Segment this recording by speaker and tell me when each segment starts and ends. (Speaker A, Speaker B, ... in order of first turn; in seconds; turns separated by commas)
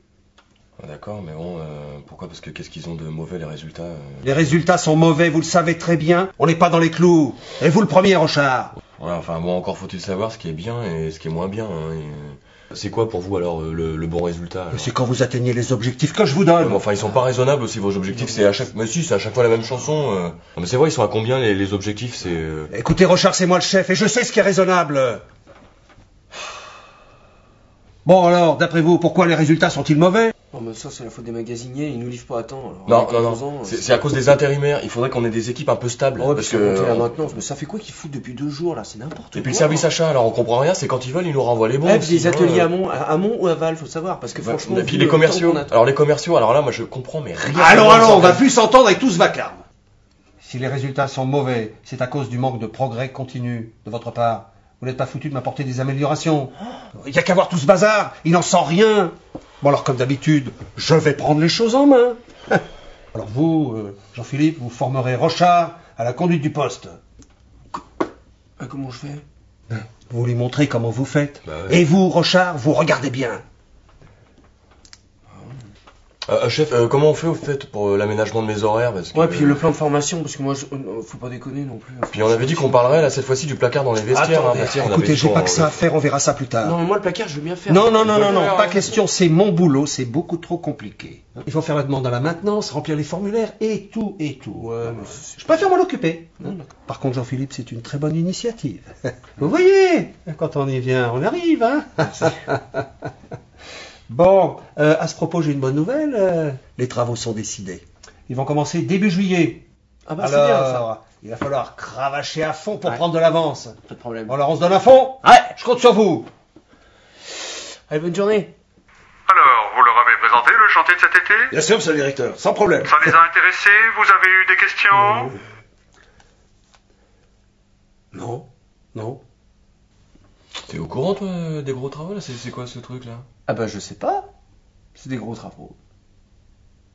Speaker A: 0.8-4.2, Speaker B: 4.2-8.8, Speaker A: 9.0-14.9, Speaker B: 14.7-16.8, Speaker A: 16.6-22.7, Speaker B: 22.7-25.2, Speaker B: 28.0-30.3, Speaker C: 30.5-34.1, Speaker A: 32.9-37.1, Speaker C: 36.2-39.9, Speaker A: 39.3-42.7, Speaker C: 41.8-45.7, Speaker A: 44.4-48.4, Speaker C: 47.4-48.4, Speaker B: 47.5-49.6, Speaker B: 50.4-62.6, Speaker B: 63.1-67.0, Speaker C: 68.6-69.2, Speaker B: 69.7-73.4, Speaker A: 71.5-71.8, Speaker A: 76.2-79.6, Speaker C: 79.1-83.1, Speaker A: 82.1-85.8, Speaker B: 84.1-86.8, Speaker C: 86.6-88.8, Speaker B: 87.7-102.8, Speaker A: 88.0-88.9, Speaker C: 94.5-95.7, Speaker C: 96.4-96.7, Speaker B: 104.1-109.6, Speaker C: 110.0-110.8, Speaker B: 110.2-113.7, Speaker C: 113.9-114.3, Speaker B: 114.3-116.3, Speaker C: 115.2-115.5, Speaker C: 117.9-118.5, Speaker D: 119.3-121.5, Speaker B: 121.5-123.1, Speaker D: 122.8-125.3, Speaker C: 128.1-129.2, Speaker A: 130.6-133.2, Speaker C: 133.5-134.3, Speaker C: 134.9-135.8